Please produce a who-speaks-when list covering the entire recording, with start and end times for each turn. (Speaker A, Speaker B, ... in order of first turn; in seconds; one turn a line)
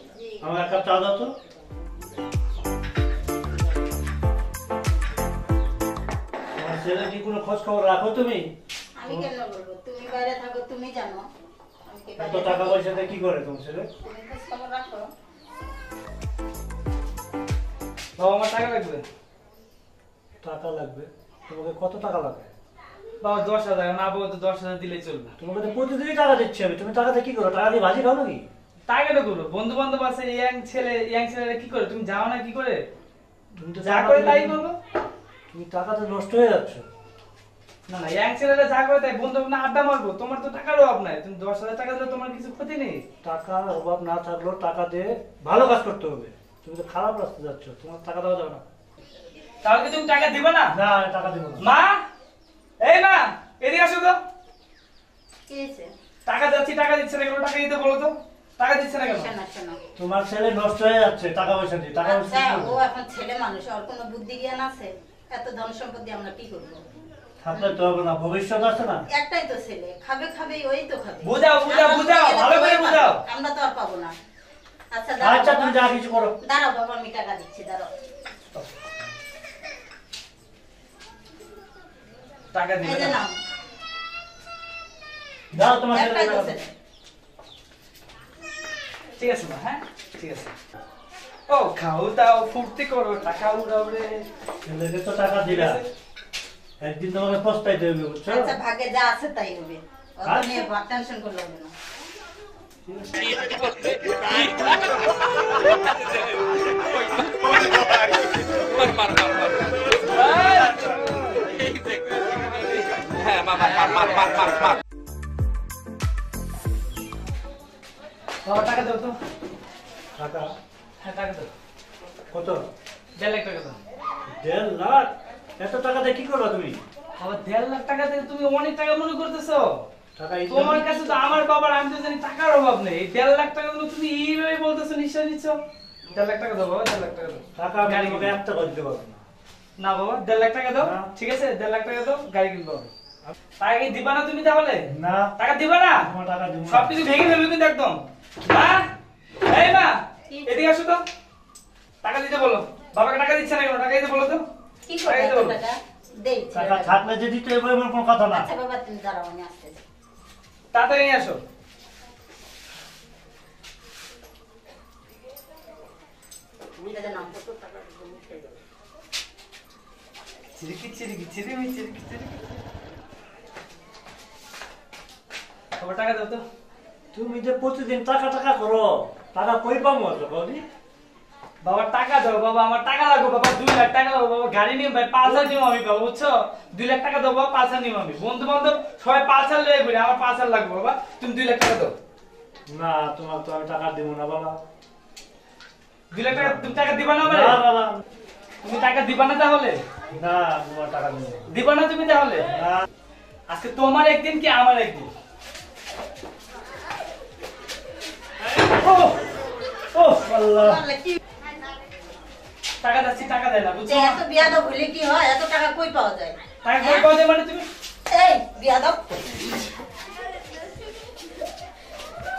Speaker A: 0.4-1.3
Speaker A: 6.5-8.5
Speaker B: 9.0-11.2
Speaker B: 11.9-12.8
Speaker A: 12.2-13.9
Speaker B: 14.0-15.1
Speaker C: 18.2-19.0
Speaker A: 20.4-22.5
Speaker C: 23.2-25.3
Speaker A: 25.4-28.4
Speaker C: 28.9-32.8
Speaker A: 33.5-34.6
Speaker C: 33.8-34.7
Speaker A: 35.5-36.9
Speaker C: 37.9-43.0
Speaker A: 43.2-48.6
Speaker C: 49.6-50.7
Speaker A: 50.7-51.7
Speaker C: 51.6-52.0
Speaker C: 52.8-54.2
Speaker B: 55.5-55.9
Speaker C: 56.2-59.3
Speaker B: 59.0-59.8
Speaker A: 60.0-62.8
Speaker B: 62.0-66.8
Speaker A: 67.4-69.0
Speaker B: 69.1-74.1
Speaker C: 71.2-73.2
Speaker B: 74.9-77.9
Speaker A: 75.2-76.3
Speaker C: 82.5-83.2
Speaker B: 82.8-83.4
Speaker A: 85.5-86.5
Speaker B: 85.9-86.7
Speaker C: 89.2-90.5
Speaker C: 91.5-94.3
Speaker A: 94.6-95.8
Speaker C: 95.4-95.8
Speaker A: 96.8-98.5
Speaker B: 98.3-101.7
Speaker A: 100.2-100.7
Speaker A: 102.8-103.5
Speaker C: 108.9-109.3
Speaker C: 110.1-111.3
Speaker C: 113.4-114.6
Speaker C: 118.4-119.2
Speaker A: 120.2-120.5
Speaker C: 121.0-121.5
Speaker A: 122.3-122.6
Speaker C: 123.2-123.8
Speaker A: 124.3-126.8
Speaker C: 127.2-129.8
Speaker A: 130.2-130.9
Speaker C: 130.5-135.6
Speaker C: 136.1-138.3
Speaker A: 137.5-139.2
Speaker C: 139.8-142.9
Speaker A: 140.8-141.1
Speaker C: 143.6-146.1
Speaker A: 144.9-145.3
Speaker A: 145.9-147.0
Speaker C: 146.7-148.8
Speaker C: 149.4-151.0
Speaker C: 152.0-154.4
Speaker B: 154.9-157.0
Speaker C: 155.0-155.6
Speaker A: 156.5-158.5
Speaker B: 158.3-159.8
Speaker C: 160.7-161.4
Speaker B: 166.8-167.4
Speaker C: 170.6-172.6
Speaker C: 175.8-176.4
Speaker A: 177.1-180.6
Speaker C: 181.6-191.9
Speaker A: 192.7-194.6
Speaker C: 196.1-197.6
Speaker A: 196.3-198.0
Speaker C: 198.6-199.8
Speaker A: 200.1-201.5
Speaker C: 201.5-202.5
Speaker A: 202.5-202.8
Speaker C: 203.5-205.1
Speaker C: 208.6-209.2
Speaker A: 209.9-210.8
Speaker B: 210.6-211.2
Speaker C: 212.8-214.2
Speaker B: 213.8-217.1
Speaker C: 216.6-217.7
Speaker B: 218.1-219.7